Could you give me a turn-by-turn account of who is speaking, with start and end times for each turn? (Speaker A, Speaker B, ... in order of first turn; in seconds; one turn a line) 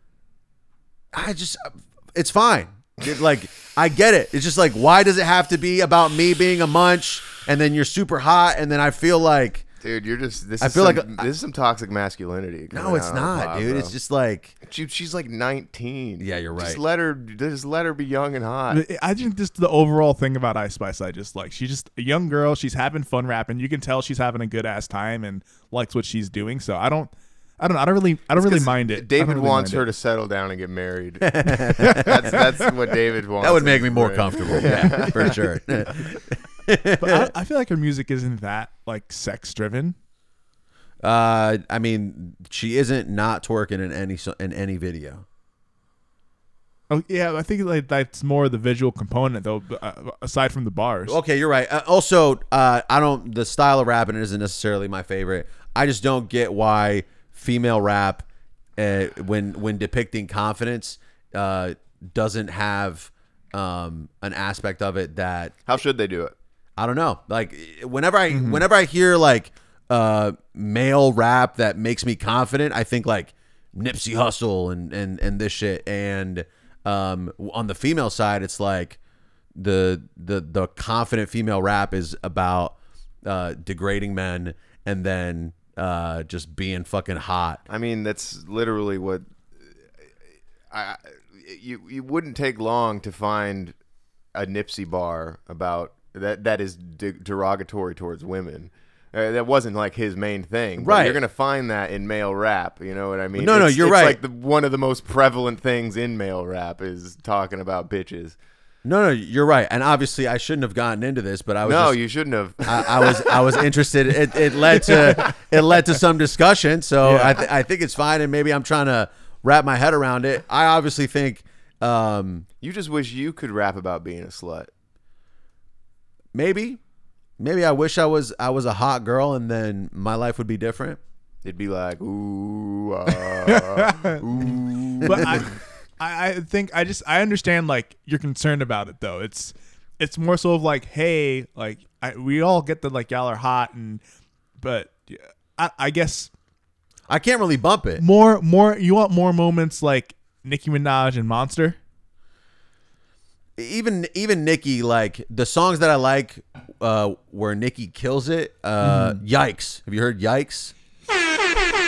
Speaker A: 1.1-9.7
Speaker B: 9.8-13.9
Speaker A: 10.6-11.3
Speaker A: 12.7-14.6
Speaker B: 14.6-18.8
Speaker A: 16.2-16.8
Speaker C: 18.7-29.9
Speaker B: 28.4-35.4
Speaker A: 31.2-32.5
Speaker C: 31.8-32.3
Speaker A: 33.4-37.3
Speaker C: 37.0-40.0
Speaker A: 41.0-45.2
Speaker C: 46.9-51.2
Speaker A: 51.1-58.2
Speaker A: 58.8-65.5
Speaker B: 65.7-66.3
Speaker A: 66.8-79.0
Speaker C: 68.3-68.6
Speaker A: 79.5-87.6
Speaker B: 87.7-89.2
Speaker B: 90.7-93.7
Speaker B: 94.3-108.4
Speaker A: 100.8-101.2
Speaker A: 103.4-104.2
Speaker A: 108.8-112.0
Speaker B: 111.6-113.6
Speaker A: 112.6-122.5
Speaker B: 114.8-115.3
Speaker C: 117.0-117.4
Speaker B: 122.6-124.7
Speaker A: 126.3-126.8
Speaker A: 127.4-131.0
Speaker B: 131.4-135.5
Speaker C: 133.3-134.2
Speaker C: 135.0-144.0
Speaker C: 144.6-146.3
Speaker A: 147.1-148.0
Speaker C: 148.0-151.8
Speaker A: 153.6-160.7
Speaker C: 158.8-159.2